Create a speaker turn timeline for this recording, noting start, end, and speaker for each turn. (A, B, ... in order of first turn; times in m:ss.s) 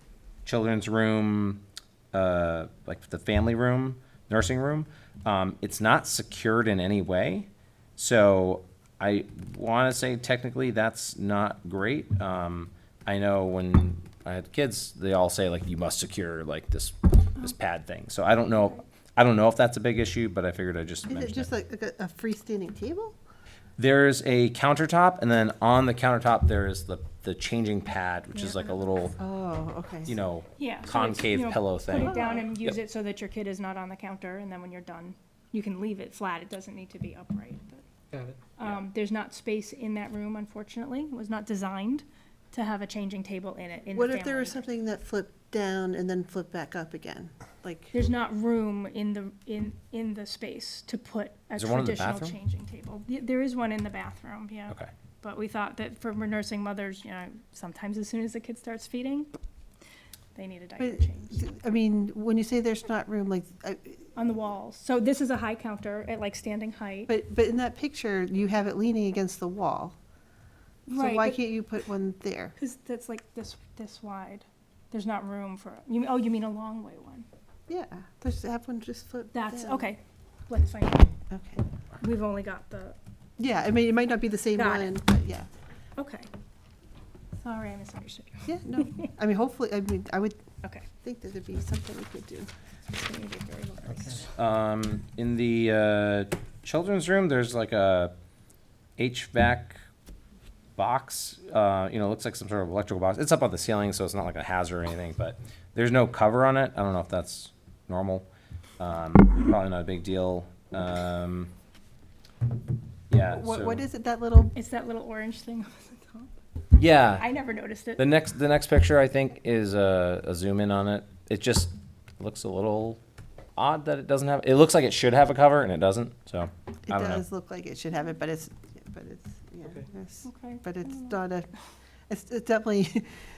0:00.4-0:21.5 A
0:21.1-0:23.1 B
0:23.8-0:29.1 A
0:28.3-0:28.9 C
0:29.2-0:30.1 B
0:30.0-0:32.8 A
0:30.6-0:37.8 C
0:32.0-0:32.4 B
0:38.6-0:44.6 C
0:43.9-0:47.9 B
0:47.9-0:59.3 C
0:51.6-0:52.4 A
1:00.3-1:01.4 C
1:00.8-1:04.0 B
1:04.2-1:07.1 C
1:07.1-1:10.0 B
1:10.9-1:12.5 B
1:10.9-1:11.4 C
1:12.6-1:17.2 C
1:17.7-1:19.8 B
1:19.3-1:21.1 C
1:21.3-1:21.6 B
1:22.0-1:23.0 C
1:23.4-1:25.5 B
1:24.5-1:25.0 C
1:26.0-1:26.3 C
1:27.4-1:29.1 C
1:28.4-1:30.4 B
1:31.0-1:32.5 B
1:32.9-1:34.3 C
1:34.3-1:38.1 A
1:39.0-1:39.8 A
1:40.8-1:48.3 A
1:48.8-1:51.5 A
1:53.1-1:53.8 A
1:53.2-1:54.5 B
1:54.5-1:56.3 C
1:56.8-1:57.3 A
1:57.2-1:58.1 C
1:58.0-2:03.0 A
2:03.6-2:07.2 A
2:06.9-2:11.5 B
2:10.2-2:11.2 C
2:12.1-2:13.0 B